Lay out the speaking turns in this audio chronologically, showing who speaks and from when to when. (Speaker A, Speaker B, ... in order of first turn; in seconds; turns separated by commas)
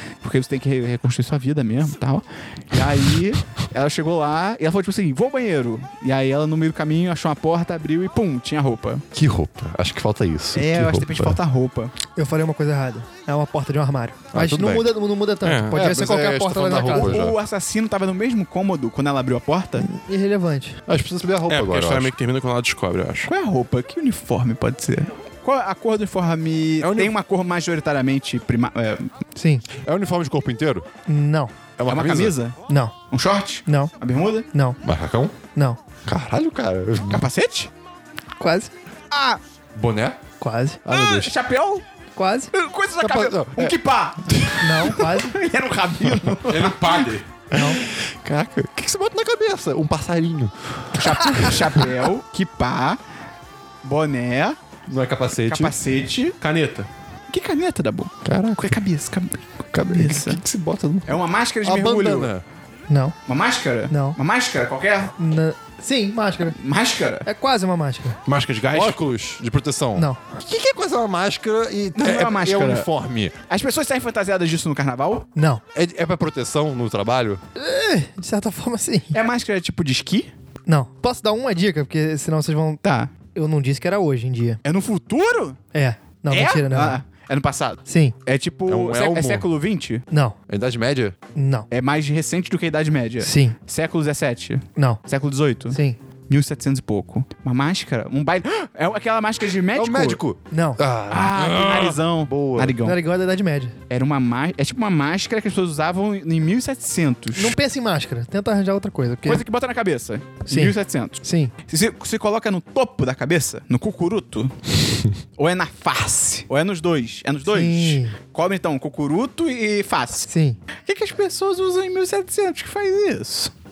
Speaker A: 0.2-9.0, Speaker B: 9.1-11.4, Speaker A: 10.5-11.9, Speaker C: 12.2-17.2, Speaker B: 14.3-14.9, Speaker D: 15.4-15.8, Speaker B: 15.7-17.4, Speaker A: 16.9-19.9, Speaker C: 19.8-20.8, Speaker B: 20.9-22.1, Speaker D: 21.5-23.3, Speaker A: 23.3-29.1, Speaker B: 26.8-27.1, Speaker C: 29.4-29.6, Speaker B: 29.8-30.9, Speaker C: 31.1-31.5, Speaker B: 31.8-32.4, Speaker A: 31.9-32.6, Speaker C: 32.7-32.9, Speaker A: 33.1-34.5, Speaker C: 33.6-33.9, Speaker C: 34.5-34.8, Speaker B: 34.8-35.4, Speaker B: 36.0-37.3, Speaker A: 37.0-37.7, Speaker C: 38.4-38.7, Speaker A: 39.1-39.4, Speaker B: 39.7-40.2, Speaker C: 40.4-40.8, Speaker B: 40.8-41.3, Speaker A: 40.9-41.8, Speaker C: 42.1-42.5, Speaker A: 42.5-47.1, Speaker B: 43.0-44.5, Speaker C: 44.6-45.4, Speaker D: 46.5-47.2, Speaker C: 47.5-47.8, Speaker B: 47.5-51.9, Speaker A: 50.9-53.0, Speaker A: 53.8-54.6, Speaker B: 54.9-55.8, Speaker A: 55.5-56.4, Speaker D: 56.4-56.9, Speaker A: 57.3-60.4, Speaker B: 58.2-58.8, Speaker B: 59.7-62.4, Speaker A: 61.1-62.3, Speaker C: 62.9-63.1, Speaker A: 63.2-65.1, Speaker C: 63.9-64.2, Speaker C: 65.2-66.5, Speaker A: 66.5-67.3, Speaker C: 67.2-68.2, Speaker D: 68.2-69.0, Speaker B: 68.7-73.3, Speaker A: 72.0-72.9, Speaker A: 73.5-75.3, Speaker C: 75.3-75.6, Speaker B: 75.7-77.4, Speaker C: 77.5-79.2, Speaker A: 79.1-80.3, Speaker C: 80.7-82.8, Speaker A: 82.8-83.1, Speaker C: 83.3-84.6, Speaker A: 84.6-85.6, Speaker C: 85.7-87.0, Speaker A: 86.3-90.0, Speaker C: 87.9-88.1, Speaker B: 88.7-89.5, Speaker C: 90.1-90.3, Speaker B: 90.5-91.2, Speaker C: 91.3-91.7, Speaker A: 91.7-100.2, Speaker C: 93.2-93.6, Speaker C: 95.7-96.0, Speaker B: 99.7-102.8, Speaker C: 100.5-100.8, Speaker A: 101.1-103.0, Speaker C: 102.8-103.7, Speaker A: 103.9-107.5, Speaker C: 107.3-109.4, Speaker A: 109.2-114.8, Speaker C: 110.5-111.5, Speaker A: 115.4-120.3, Speaker C: 117.5-118.2, Speaker C: 120.3-120.6, Speaker A: 120.9-123.5